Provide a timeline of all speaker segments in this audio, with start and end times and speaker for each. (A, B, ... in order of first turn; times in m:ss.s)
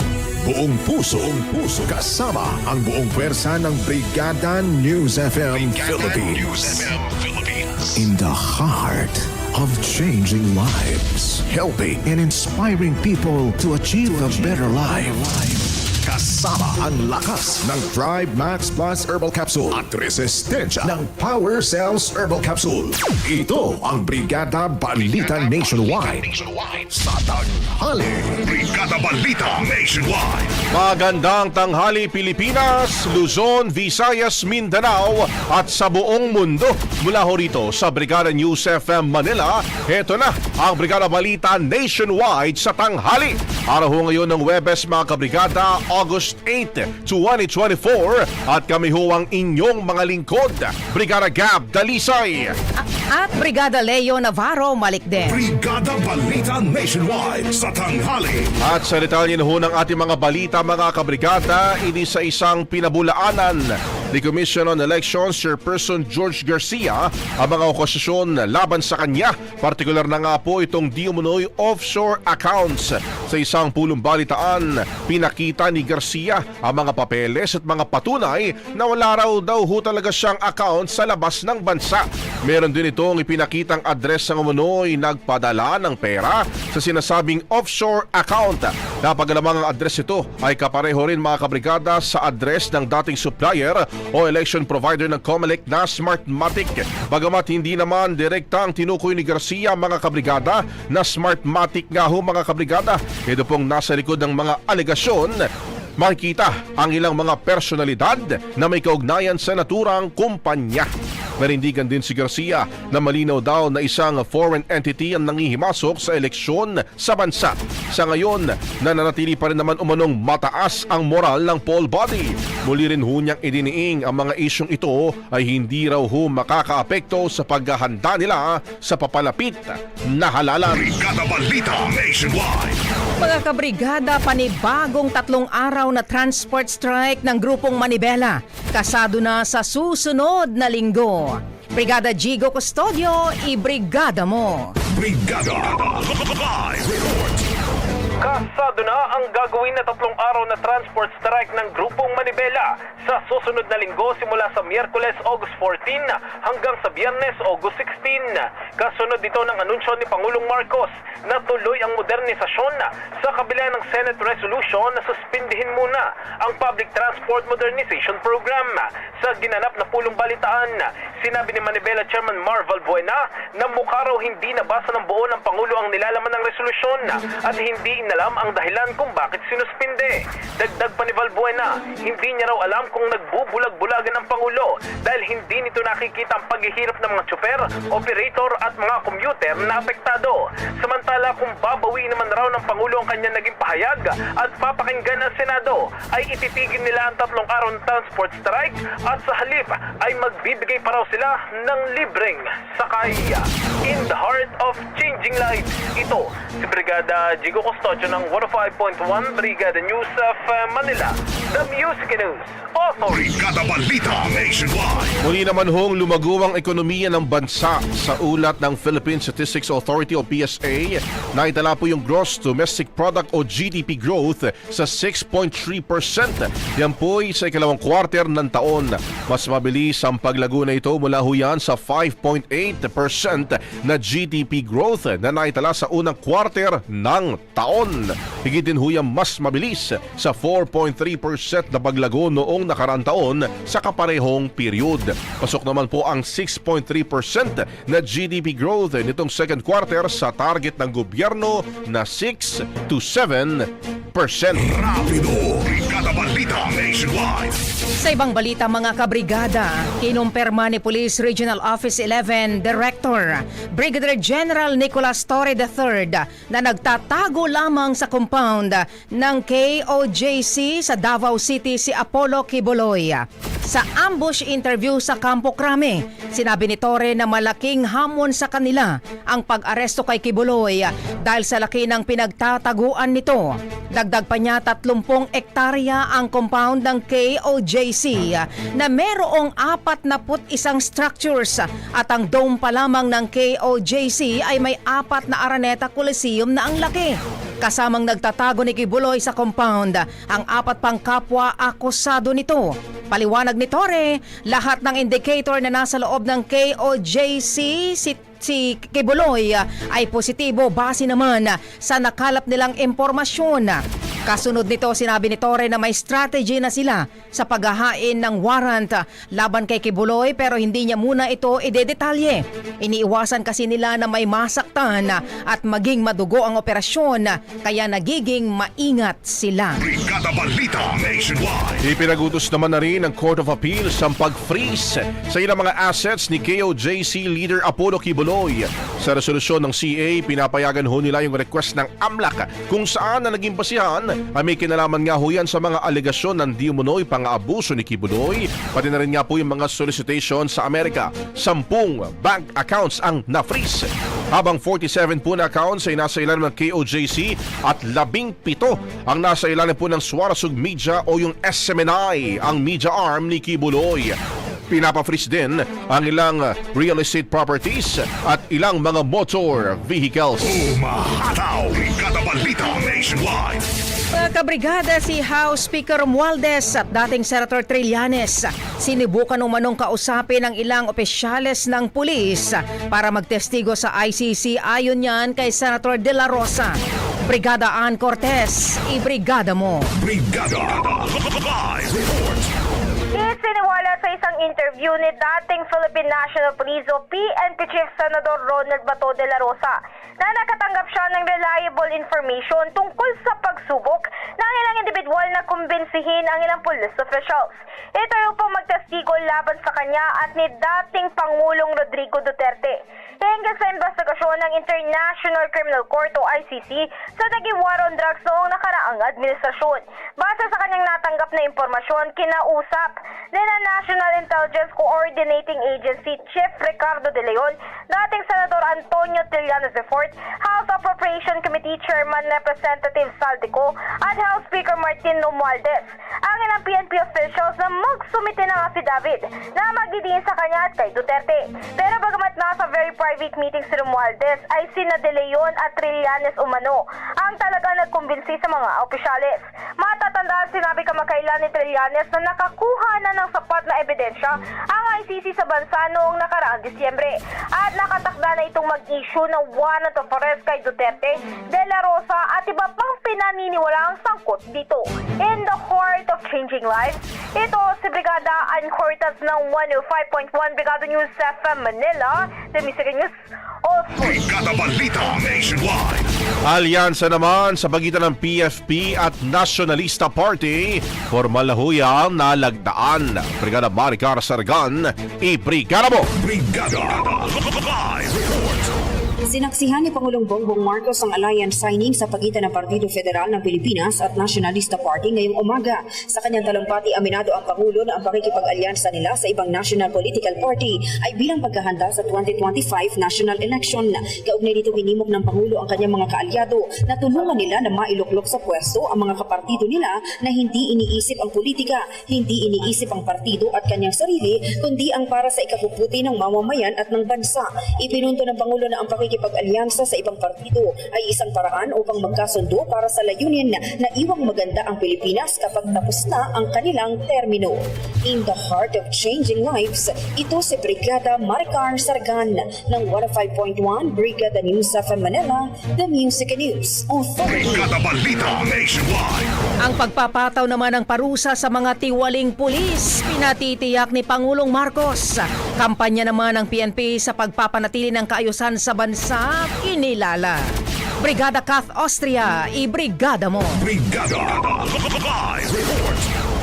0:00.4-0:28.4 A
0:28.4-0:30.5 B
0:30.7-0:52.5 C
0:52.8-0:55.4 D
0:55.2-0:58.5 B
0:58.6-1:45.4 C
1:46.0-2:10.8 C
2:10.7-2:12.8 B
2:13.2-2:24.7 D
2:24.9-2:27.4 B
2:28.2-3:33.3 E
3:33.1-3:35.1 B
3:35.2-4:14.8 C
4:14.6-4:17.6 B
4:18.0-5:29.8 D
5:29.8-5:31.8 B
5:31.8-6:04.2 C
6:04.7-6:10.5 C
6:10.4-6:13.7 B
6:14.1-6:29.9 D
6:30.0-6:32.5 B
6:33.1-7:54.2 F
7:53.9-7:56.1 B
7:56.4-8:06.1 C
8:06.2-8:08.7 B
8:09.3-8:57.7 G
8:57.2-8:59.3 B
8:59.6-9:10.4 D
9:11.0-9:13.6 D
9:13.6-9:16.1 B